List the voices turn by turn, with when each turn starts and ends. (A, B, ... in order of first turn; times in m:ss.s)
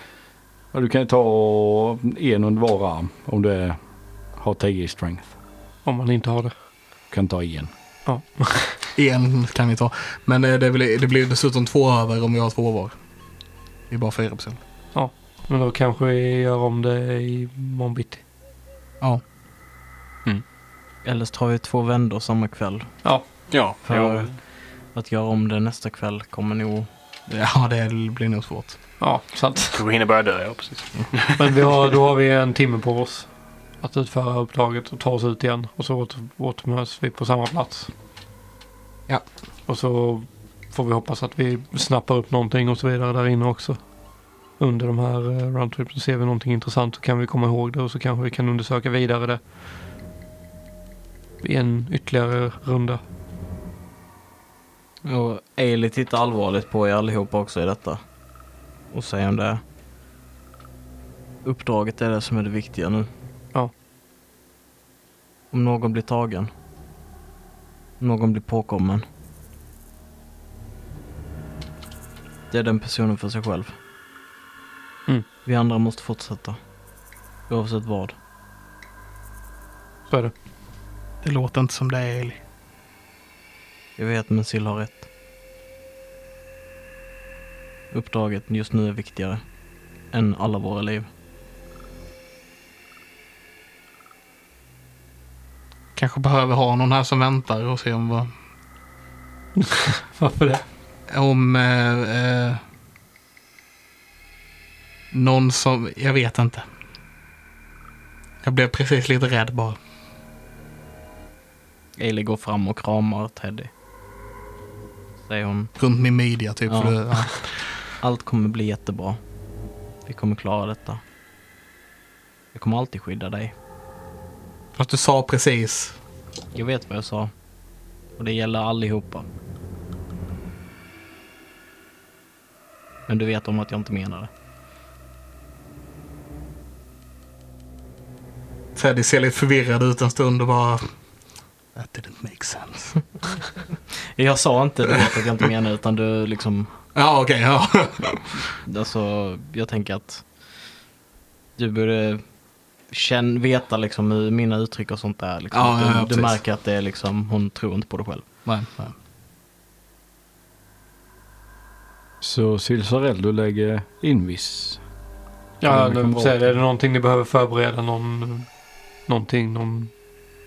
0:00.7-0:03.8 A
0:04.4-0:05.3 A
0:05.8-0:06.5 B
0:07.1-0:07.7 A
0:08.0-0:08.8 B
0:08.9-0:13.0 C
0:13.9-0:14.6 C
0:14.9-0:18.2 B
0:21.0-0:22.9 D
0:23.5-0:24.4 E
0:23.8-0:24.4 D
0:24.9-0:26.9 D
0:27.3-0:28.8 C
0:29.0-0:29.8 B
0:29.7-0:31.4 E
0:31.4-0:33.3 B
0:33.8-0:37.9 B
0:39.7-0:43.8 B
0:44.6-0:49.4 B
0:51.4-0:53.0 B
0:55.0-0:58.0 D
0:58.9-0:59.6 D
1:01.4-1:03.1 D
1:05.5-1:06.5 D
1:08.0-1:09.0 D
1:12.5-1:13.7 D
1:15.4-1:16.6 D
1:17.5-1:18.1 D
1:21.2-1:22.4 C
1:24.0-1:25.0 D
1:27.9-1:29.4 D
1:30.1-1:31.1 D
1:36.0-1:38.3 C
1:39.6-1:40.6 B
1:41.1-1:42.6 C
1:45.1-1:46.6 C
1:48.4-1:49.8 C
1:52.0-1:53.7 D
1:55.2-1:55.7 D
1:55.8-1:57.6 C
1:56.7-1:57.0 D
1:58.0-1:59.2 D
2:00.0-2:01.0 D
2:02.5-2:03.5 D
2:04.8-2:05.9 C
2:06.5-2:07.3 D
2:08.2-2:09.2 D
2:13.1-2:14.3 D
2:18.7-2:20.9 C
2:21.7-2:23.0 C
2:24.2-2:26.7 D
2:26.9-2:28.4 C
2:28.6-2:30.2 D
2:31.6-2:32.2 D
2:32.9-2:38.2 D
2:35.5-2:36.4 C
2:38.4-2:38.9 C
2:42.2-2:44.8 A
2:45.6-2:48.5 B
2:45.6-2:46.6 A
2:49.1-2:49.9 B